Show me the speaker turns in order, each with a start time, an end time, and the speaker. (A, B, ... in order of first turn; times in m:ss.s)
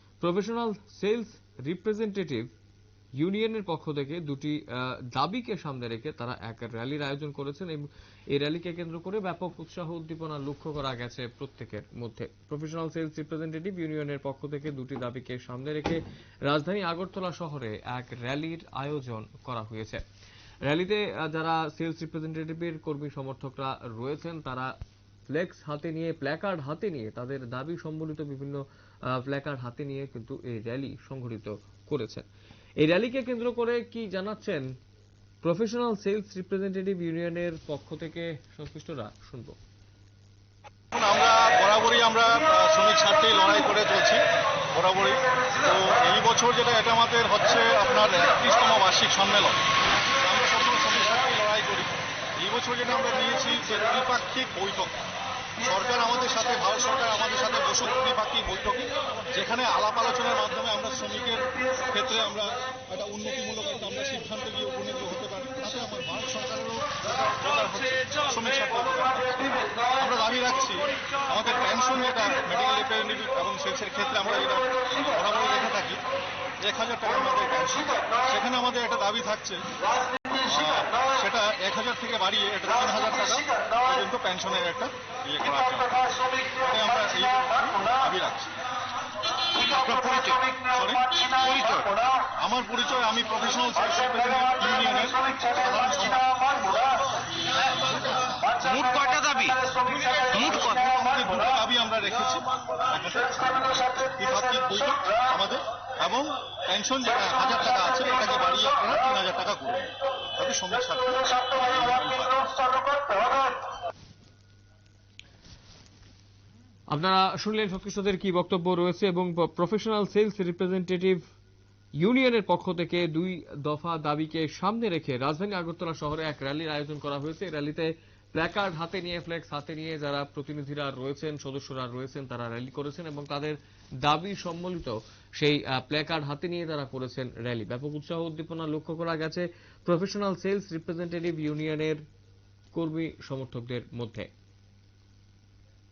0:00.2-0:02.5 A
0:03.2-0:20.0 A
0:20.6-0:24.7 A
0:25.3-0:32.3 A
0:32.8-0:34.7 A
0:35.4-0:39.6 A
0:40.9-0:44.2 B
0:44.7-0:49.6 B
0:50.1-0:55.0 B
0:55.6-1:16.0 B
1:16.6-1:19.6 B
1:20.3-1:28.5 B
1:29.6-1:30.5 C
1:30.5-1:31.6 B
1:31.5-1:31.9 C
1:32.2-1:36.9 B
1:38.5-1:40.7 C
1:40.3-1:52.7 B
1:56.9-2:01.2 A
2:02.0-2:22.0 A
2:22.7-2:24.3 A